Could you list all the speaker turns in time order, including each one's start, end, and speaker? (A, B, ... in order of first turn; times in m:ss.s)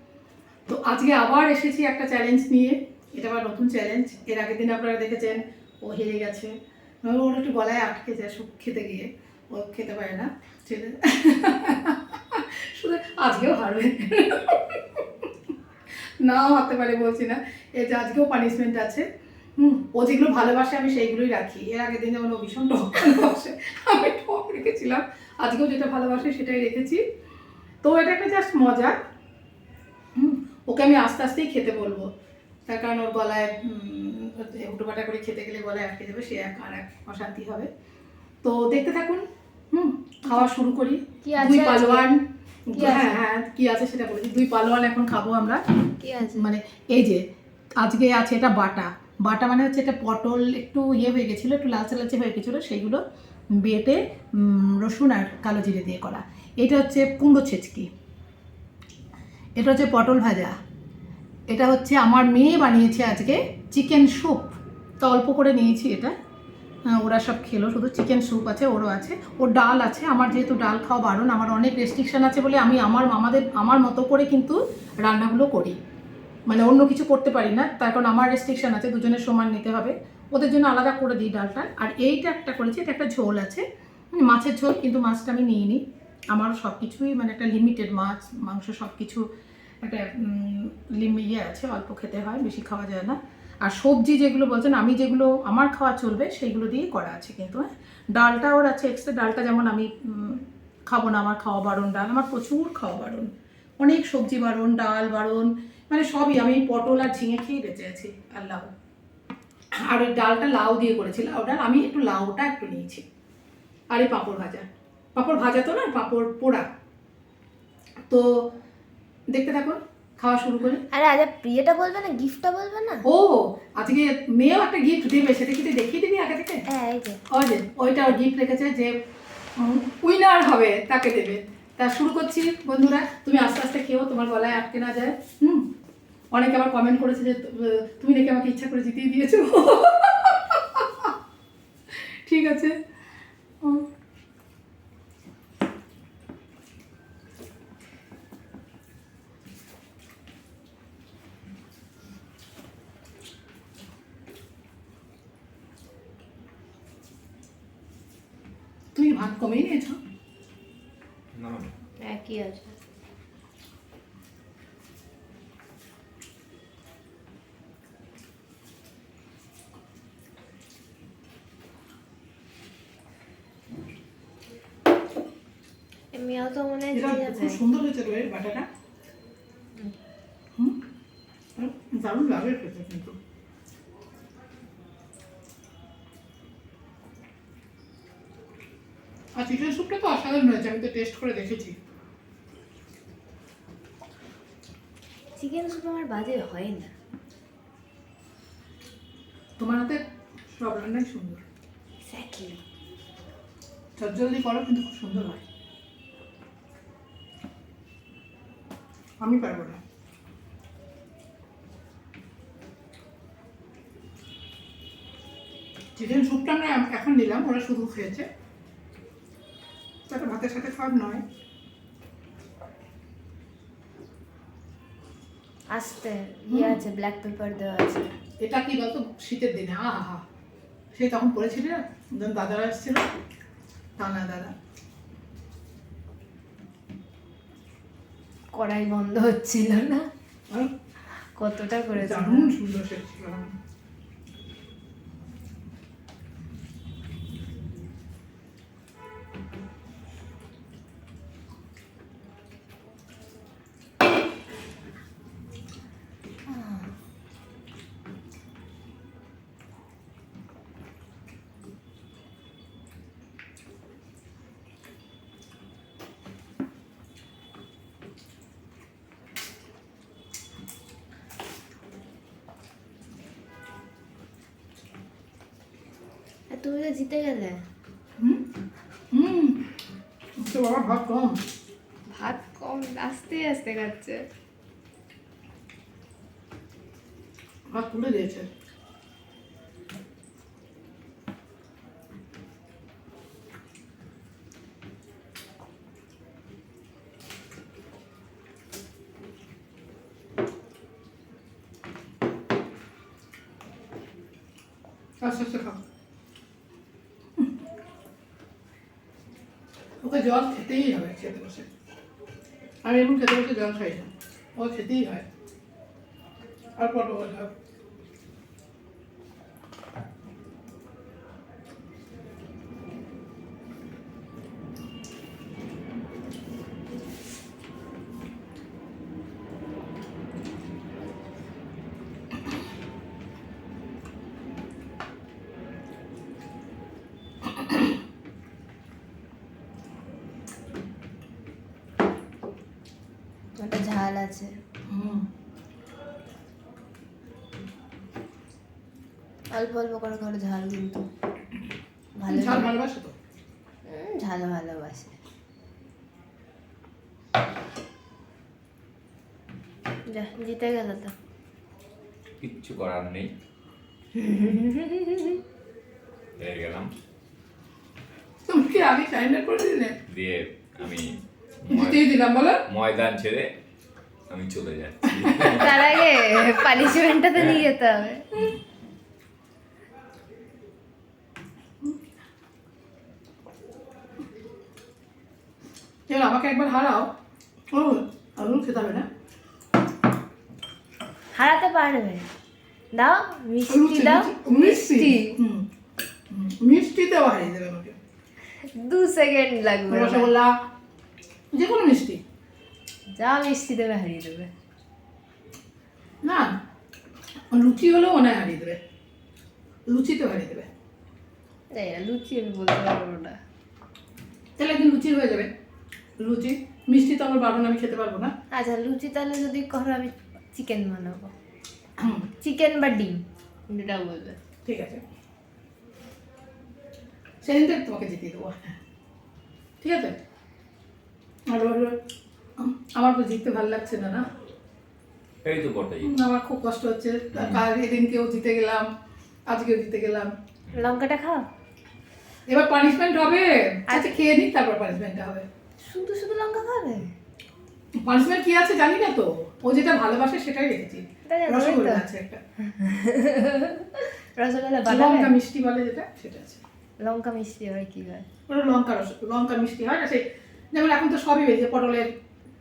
0:00.7-0:06.5 A
0:07.0-0:15.0 A
0:16.2-0:19.0 A
0:19.6-0:27.0 A
0:27.8-0:29.0 A
0:30.2-0:32.1 A
0:32.7-0:37.7 A
0:38.4-0:45.6 A
0:41.2-0:42.1 B
0:42.8-0:43.2 B
0:46.0-0:46.4 B
0:46.4-0:47.2 A
0:47.8-0:53.0 A
0:53.6-0:57.9 A
0:59.6-1:00.6 A
1:01.5-1:06.1 A
1:06.9-1:15.8 A
1:16.5-1:25.8 A
1:26.3-1:29.2 A
1:29.8-1:43.3 A
1:43.8-1:48.7 A
1:49.9-1:53.0 A
1:53.9-1:56.6 A
1:59.3-2:00.8 A
2:00.9-2:03.0 B
2:03.0-2:06.6 A
2:06.7-2:07.2 B
2:07.3-2:08.9 A
2:09.6-2:15.7 A
2:16.3-2:21.1 A
2:21.9-2:22.8 A
2:38.9-2:40.0 A
2:41.3-2:41.7 C
2:42.0-2:42.7 B
2:56.1-2:57.6 B
2:56.9-2:58.7 A
3:01.6-3:03.2 A
3:09.4-3:11.8 A
3:15.4-3:16.9 B
3:19.6-3:21.4 A
3:22.1-3:22.6 B
3:24.0-3:25.4 A
3:29.2-3:29.8 A
3:36.0-3:38.2 A
3:40.1-3:41.2 A
3:45.7-3:48.1 B
3:46.5-3:46.8 A
3:48.4-3:50.2 A
3:50.9-3:53.0 A
3:54.0-3:54.5 A
3:58.5-4:00.1 B
4:01.4-4:02.5 B
4:02.0-4:03.5 A
4:16.5-4:16.9 B
4:36.5-4:37.6 B
4:39.1-4:39.6 A
4:40.4-4:41.4 A
4:42.1-4:44.2 B
4:47.7-4:48.5 A
5:05.2-5:05.8 A
5:10.0-5:11.7 A
5:12.8-5:15.2 A
5:16.8-5:17.5 A
5:43.6-5:44.5 B
5:44.9-5:45.3 A
5:49.5-5:51.1 B
5:52.2-5:52.7 B
5:52.3-5:53.1 A
5:53.9-5:55.1 B
6:00.1-6:01.1 B
6:02.4-6:03.3 C
6:04.2-6:05.4 B
6:06.4-6:06.9 C
6:08.5-6:10.0 A
6:10.1-6:12.0 C
6:11.7-6:12.6 A
6:12.7-6:13.5 C
6:14.3-6:16.0 C
6:15.2-6:15.8 A
6:15.6-6:18.2 B
6:16.8-6:17.7 C
6:26.1-6:27.1 A
6:27.7-6:29.1 A
6:31.4-6:32.2 B
6:32.9-6:35.4 B
6:33.7-6:35.7 A
6:36.3-6:38.0 A
6:38.8-6:40.3 B
6:39.9-6:40.5 A
6:41.5-6:42.2 A
6:43.2-6:44.5 B
6:46.2-6:46.5 A
6:47.5-6:48.8 A
6:49.9-6:50.7 A
6:51.7-6:53.4 B
6:54.6-6:55.5 A
6:56.2-6:58.3 A
6:58.5-7:01.3 B
7:02.0-7:02.3 A
7:02.4-7:03.2 B
7:03.7-7:04.4 B
7:04.6-7:05.0 A
7:07.4-7:08.8 A
7:09.8-7:10.2 A
7:11.5-7:12.0 A
7:12.6-7:14.2 A
7:15.4-7:16.1 C
7:16.0-7:18.9 A
7:17.3-7:17.6 C
7:19.5-7:20.3 A
7:20.7-7:21.4 B
7:22.5-7:25.5 A
7:25.8-7:27.1 B
7:28.0-7:32.4 A
7:31.3-7:32.0 B
7:32.8-7:35.3 B
7:34.9-7:36.6 A
7:37.0-7:38.3 B
7:38.5-7:42.1 A